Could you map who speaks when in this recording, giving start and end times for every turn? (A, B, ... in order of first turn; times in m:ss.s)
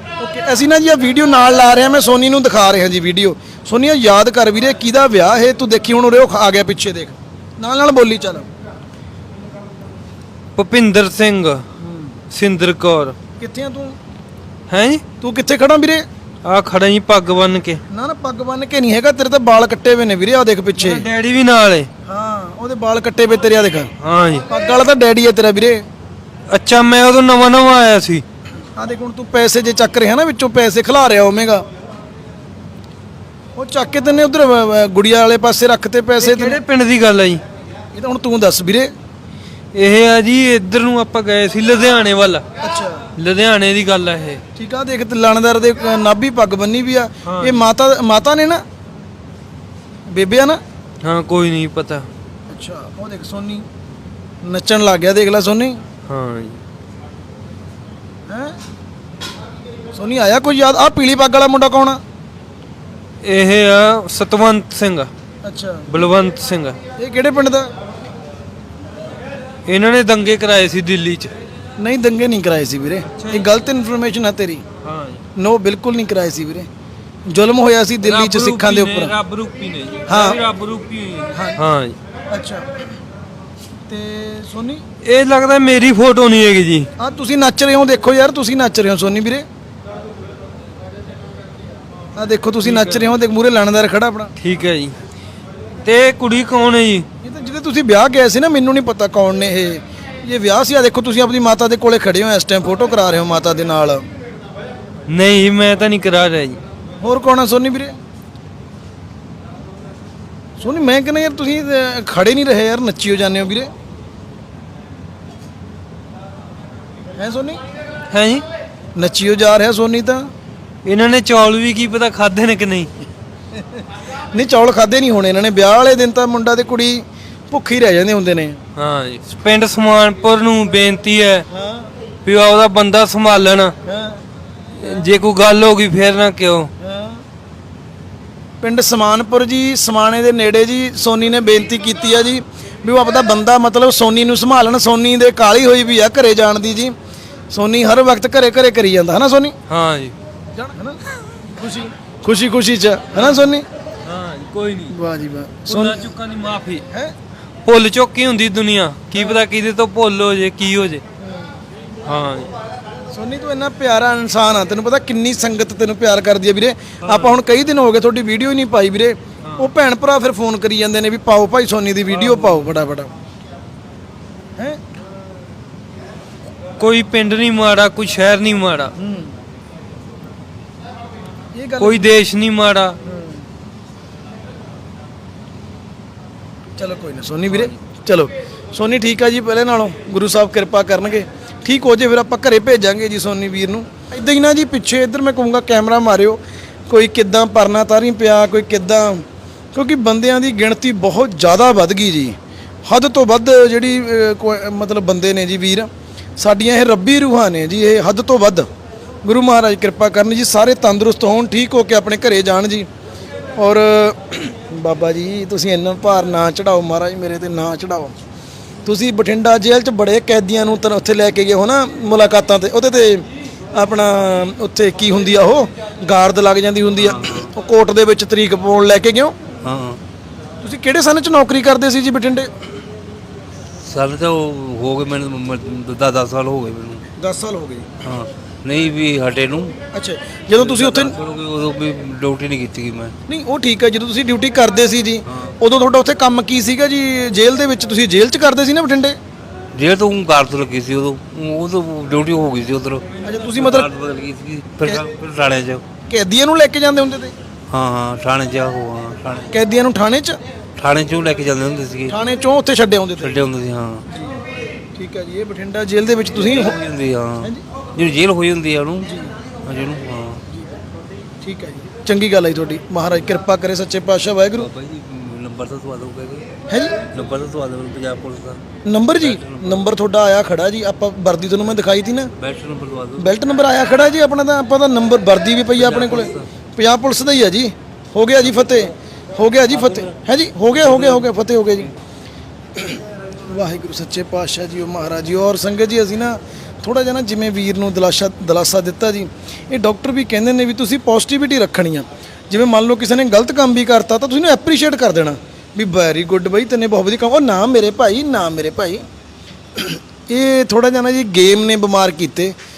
0:00.2-0:08.5 A
0:10.6-0:11.6 B
0:11.8-0:12.2 A
0:12.3-0:13.2 B
0:13.4-0:14.0 A
0:14.7-0:15.0 B
0:15.2-0:16.0 A
0:16.4-0:17.8 B
0:17.9-0:21.0 A
0:20.8-0:21.9 B
0:22.1-0:23.9 A
0:24.0-0:24.4 B
0:24.5-0:25.8 A
0:26.5-0:28.2 B
0:28.8-0:31.6 A
0:33.6-0:36.6 A
0:36.2-0:37.4 B
0:37.9-0:38.9 A
0:39.7-0:42.4 B
0:42.6-0:43.0 A
0:43.2-0:44.4 B
0:44.6-0:48.6 A
0:47.3-0:47.7 B
0:50.1-0:50.6 A
0:51.0-0:52.1 B
0:52.5-0:53.7 A
0:54.4-0:55.8 A
0:56.1-0:56.6 B
0:58.3-0:58.6 A
1:00.0-1:02.0 A
1:03.2-1:05.1 B
1:05.4-1:05.9 A
1:05.9-1:06.8 B
1:07.0-1:07.7 A
1:09.7-1:11.3 B
1:11.8-1:14.6 A
1:13.2-1:13.4 B
1:14.8-1:15.2 B
1:15.4-1:16.7 A
1:17.3-1:19.2 A
1:18.0-1:22.0 B
1:20.1-1:20.4 A
1:21.3-1:21.6 A
1:22.3-1:22.6 A
1:23.9-1:24.8 A
1:25.0-1:26.9 B
1:27.0-1:29.4 A
1:32.2-1:34.3 A
1:32.6-1:33.1 B
1:34.4-1:35.0 B
1:35.8-1:37.1 B
1:37.2-1:44.0 A
1:45.1-1:46.6 B
1:47.0-1:48.0 A
1:50.6-1:53.7 A
1:57.2-1:57.6 A
1:58.1-1:58.4 B
1:59.0-2:00.2 A
2:00.8-2:02.9 B
2:03.6-2:08.6 A
2:08.8-2:11.4 B
2:11.5-2:11.9 A
2:12.2-2:13.7 B
2:13.8-2:14.2 A
2:14.8-2:16.7 B
2:16.8-2:17.2 A
2:18.6-2:26.9 A
2:27.5-2:29.6 A
2:29.7-2:30.1 B
2:30.5-2:33.7 A
2:33.2-2:33.4 B
2:34.0-2:35.0 B
2:34.9-2:36.0 A
2:35.7-2:36.8 B
2:37.6-2:41.0 B
2:39.2-2:39.4 A
2:41.2-2:41.5 A
2:42.0-2:42.5 B
2:43.1-2:53.1 A
2:47.0-2:47.4 B
2:52.1-2:52.7 B
2:56.8-2:58.9 B
2:59.0-2:59.3 A
3:01.5-3:02.1 A
3:01.8-3:03.0 B
3:03.0-3:03.4 A
3:06.8-3:28.7 A
3:29.2-3:32.9 A
3:33.6-3:38.1 A
3:38.8-3:49.4 A
3:47.0-3:47.5 C
3:49.6-3:50.0 C
3:50.6-3:52.5 A
3:53.8-3:57.0 C
3:57.2-3:57.9 A
3:58.0-3:59.8 C
3:59.9-4:01.2 A
4:00.6-4:03.1 C
4:03.3-4:09.2 A
4:09.7-4:15.8 C
4:13.2-4:13.9 A
4:16.1-4:17.3 A
4:17.7-4:19.5 C
4:19.5-4:20.4 A
4:20.8-4:22.2 C
4:22.1-4:23.4 A
4:23.2-4:24.0 C
4:25.0-4:26.8 A
4:26.5-4:30.4 C
4:29.0-4:29.3 A
4:31.4-4:34.7 A
4:34.6-4:36.5 C
4:36.7-4:37.0 A
4:37.1-4:38.6 C
4:38.9-4:42.3 A
4:39.2-4:39.9 C
4:42.4-4:43.3 C
4:43.2-4:51.9 A
4:45.8-4:46.5 C
4:52.8-5:09.0 A
5:09.8-5:12.6 A